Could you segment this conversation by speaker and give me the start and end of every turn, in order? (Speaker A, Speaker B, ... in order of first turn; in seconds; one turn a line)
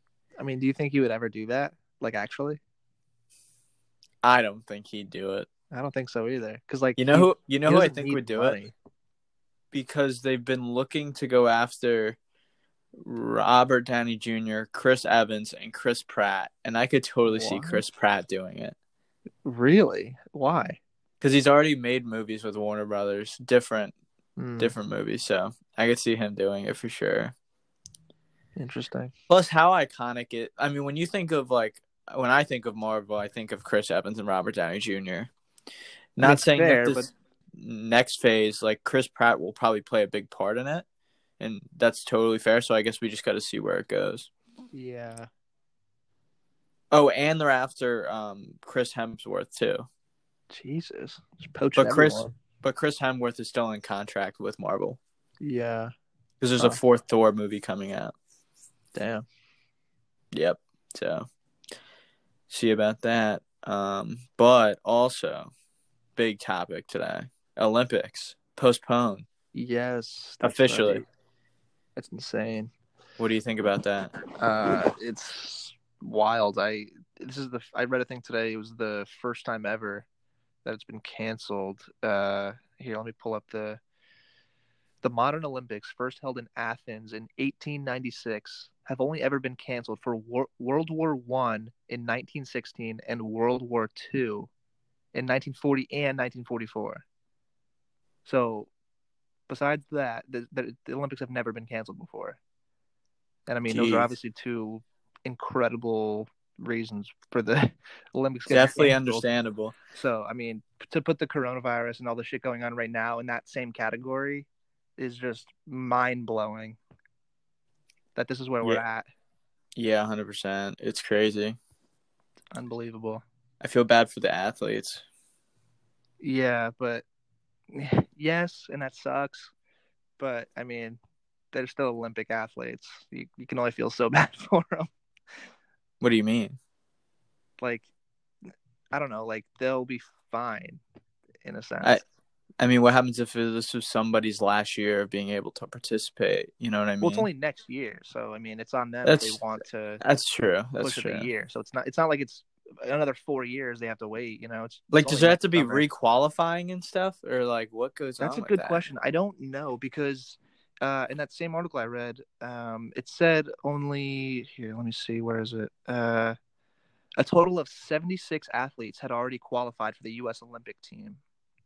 Speaker A: 0.4-2.6
Speaker B: 4.2-5.5
Speaker A: 5.7-8.7
Speaker B: 7.0-8.6
Speaker B: 9.7-12.2
Speaker B: 12.9-18.8
Speaker A: 17.2-17.8
Speaker A: 19.4-20.8
Speaker B: 21.2-23.9
Speaker A: 24.4-24.7
Speaker B: 24.6-27.3
Speaker A: 28.6-29.1
Speaker B: 29.3-35.3
Speaker B: 36.2-40.9
Speaker A: 36.2-37.1
Speaker B: 41.4-44.3
Speaker A: 44.7-45.3
Speaker B: 46.9-49.9
Speaker A: 50.5-52.3
Speaker B: 51.8-55.0
Speaker A: 55.4-55.9
Speaker B: 56.4-58.1
Speaker A: 58.9-59.2
Speaker B: 60.3-61.2
Speaker B: 62.5-65.5
Speaker B: 66.2-69.3
Speaker A: 69.5-71.0
Speaker B: 70.4-71.0
Speaker A: 72.0-72.7
Speaker B: 73.2-74.1
Speaker A: 74.4-80.1
Speaker A: 80.7-83.8
Speaker A: 85.0-94.5
Speaker A: 95.1-97.0
Speaker A: 98.2-98.7
Speaker A: 99.5-102.4
Speaker A: 103.5-109.2
Speaker B: 103.7-104.1
Speaker B: 108.5-109.7
Speaker A: 109.9-114.5
Speaker A: 115.0-116.8
Speaker A: 118.2-119.1
Speaker B: 119.8-121.6
Speaker A: 122.5-123.2
Speaker B: 123.6-125.0
Speaker A: 126.2-127.0
Speaker A: 127.7-129.5
Speaker A: 130.2-131.0
Speaker A: 131.5-134.9
Speaker B: 136.0-136.6
Speaker A: 137.6-137.9
Speaker A: 138.9-140.8
Speaker A: 141.4-142.0
Speaker B: 142.6-147.3
Speaker A: 147.0-150.0
Speaker B: 149.0-149.4
Speaker B: 150.0-151.3
Speaker A: 150.8-155.8
Speaker B: 154.9-158.9
Speaker A: 158.2-166.4
Speaker A: 167.2-171.2